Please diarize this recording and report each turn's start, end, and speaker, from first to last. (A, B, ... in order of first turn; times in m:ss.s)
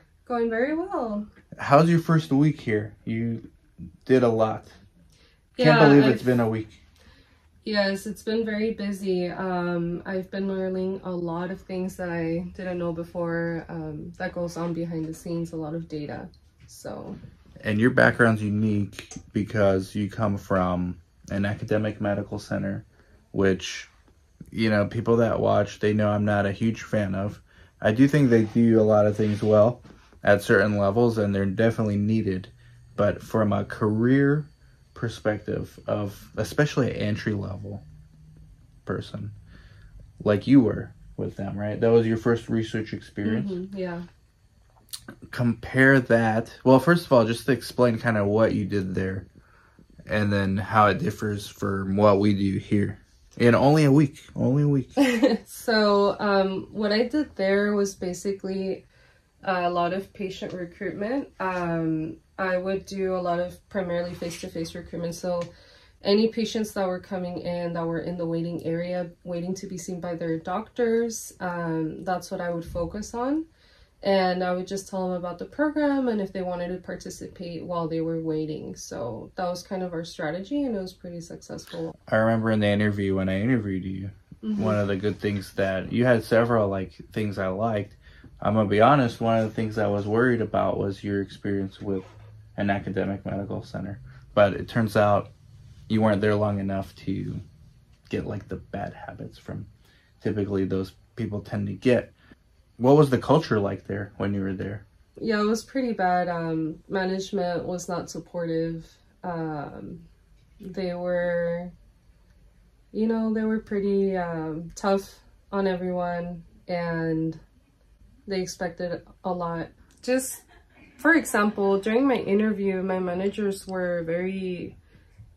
0:00.3-0:01.3 A
0:01.6-0:03.4 B
0:04.1-0:04.7 B
0:05.6-0:06.3 A
0:05.6-0:06.8 B
0:07.6-0:17.2 A
0:17.6-0:23.9 B
0:24.5-0:37.8 B
0:38.9-0:39.3 B
0:40.2-0:43.6 B
0:43.2-0:44.1 A
0:45.3-0:49.3 B
0:50.1-0:55.0 B
0:55.0-0:58.8 A
0:59.4-1:05.5 A
1:06.0-1:13.5 A
1:14.0-1:22.0 A
1:22.1-1:35.3 B
1:24.4-1:24.8 A
1:35.9-1:37.4 B
1:38.1-1:39.7 B
1:40.2-1:42.1 B
1:42.8-1:44.8 B
1:45.2-1:50.1 A
1:50.6-1:51.7 A
1:52.9-1:57.4 A
1:58.3-2:00.4 A
2:01.0-2:04.8 A